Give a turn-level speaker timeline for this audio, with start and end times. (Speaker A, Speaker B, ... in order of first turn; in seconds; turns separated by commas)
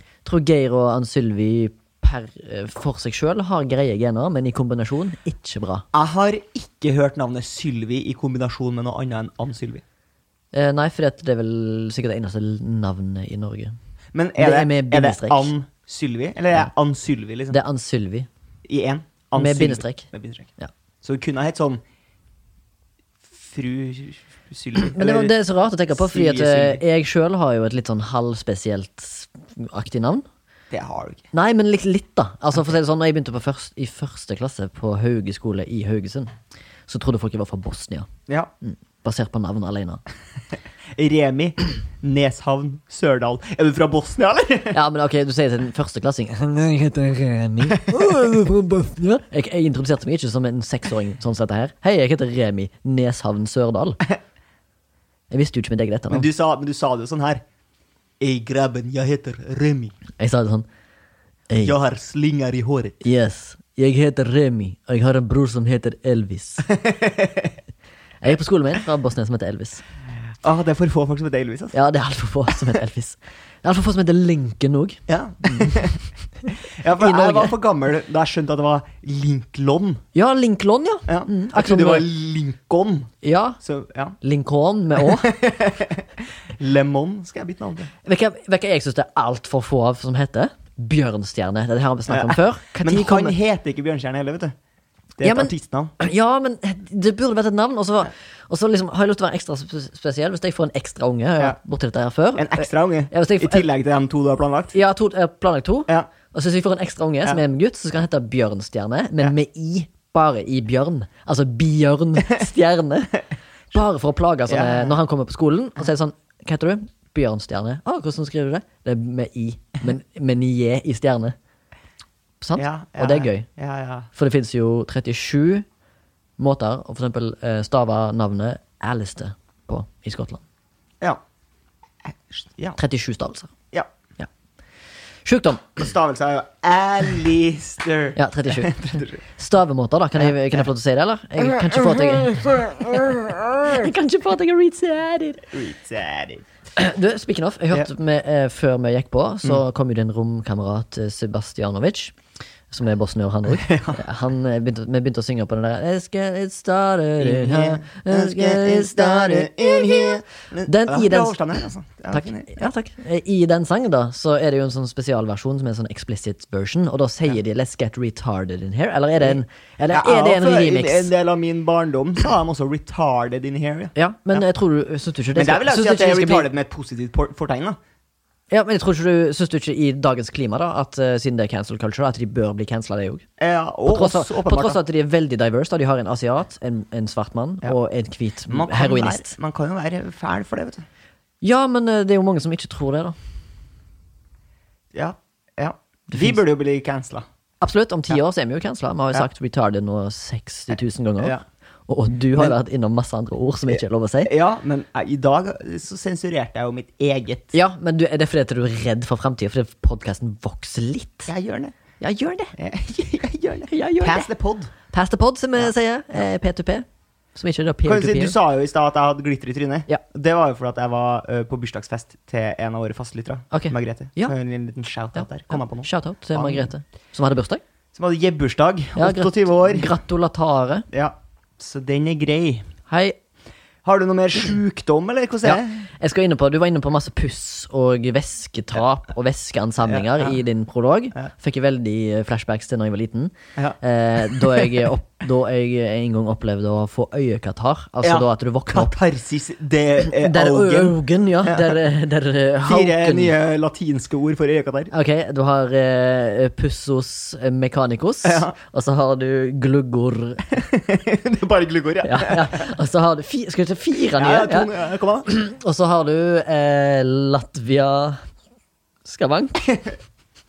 Speaker A: 0.2-5.9, Speaker B: 5.9-9.8, Speaker A: 10.5-13.8, Speaker B: 14.1-17.6, Speaker A: 14.4-15.5, Speaker A: 17.5-18.3, Speaker B: 18.7-21.8, Speaker A: 19.3-20.1, Speaker B: 23.3-25.3, Speaker A: 24.8-30.3, Speaker B: 25.9-26.8, Speaker B: 30.7-31.3, Speaker A: 31.3-36.3, Speaker A: 36.9-38.1, Speaker A: 38.6-40.0, Speaker B: 41.0-44.8, Speaker A: 44.7-54.0, Speaker A: 55.3-56.3, Speaker B: 56.1-57.4, Speaker B: 58.2-60.0, Speaker A: 60.2-60.7, Speaker A: 61.5-61.8, Speaker B: 61.6-63.0, Speaker A: 63.0-66.7, Speaker B: 66.7-67.6, Speaker A: 68.2-69.8, Speaker B: 70.4-71.8, Speaker A: 71.7-75.9, Speaker B: 75.1-76.0, Speaker A: 76.4-77.5, Speaker B: 76.6-80.0, Speaker A: 80.1-82.1, Speaker B: 81.1-84.2, Speaker A: 83.2-83.6, Speaker A: 84.2-85.3, Speaker B: 85.0-87.9, Speaker A: 88.0-93.4, Speaker B: 92.1-94.5, Speaker B: 95.2-95.9, Speaker A: 95.2-103.7, Speaker B: 102.4-104.8, Speaker A: 104.7-121.4, Speaker B: 114.5-115.0, Speaker A: 122.4-123.5, Speaker B: 122.6-124.1, Speaker A: 124.1-125.7, Speaker A: 126.4-130.4, Speaker B: 132.3-132.8, Speaker A: 132.8-133.5, Speaker A: 135.2-135.9, Speaker B: 135.8-139.2, Speaker A: 138.2-145.5, Speaker B: 141.6-143.3, Speaker B: 145.5-146.4, Speaker A: 146.8-152.2, Speaker A: 152.7-160.1, Speaker B: 153.5-154.0, Speaker B: 157.2-162.6, Speaker A: 160.7-161.4, Speaker A: 162.1-171.1, Speaker B: 169.9-174.4, Speaker A: 173.9-176.5, Speaker B: 175.3-177.8, Speaker A: 178.5-183.2, Speaker B: 183.4-184.8, Speaker A: 183.9-189.3, Speaker B: 188.5-190.9, Speaker A: 191.4-193.2, Speaker B: 194.9-197.2, Speaker A: 196.1-196.4, Speaker A: 197.6-204.3, Speaker B: 203.7-207.6, Speaker A: 207.5-211.3, Speaker B: 211.3-211.8, Speaker A: 212.0-212.5, Speaker B: 212.6-214.7, Speaker A: 213.7-214.3, Speaker A: 214.9-216.8, Speaker A: 217.4-218.4, Speaker B: 217.8-226.7, Speaker A: 223.5-224.3, Speaker A: 225.2-227.6, Speaker B: 227.9-229.9, Speaker A: 229.0-230.9, Speaker B: 230.9-232.7, Speaker A: 232.9-233.2, Speaker B: 233.8-235.8, Speaker A: 235.4-248.9, Speaker B: 239.8-240.4, Speaker B: 243.6-244.8, Speaker B: 248.0-251.8, Speaker A: 250.0-253.3, Speaker B: 252.7-254.9, Speaker A: 254.9-260.6, Speaker B: 258.2-258.5, Speaker B: 260.5-262.7, Speaker A: 262.0-264.7, Speaker B: 264.2-265.3, Speaker A: 265.2-268.2, Speaker A: 269.1-269.8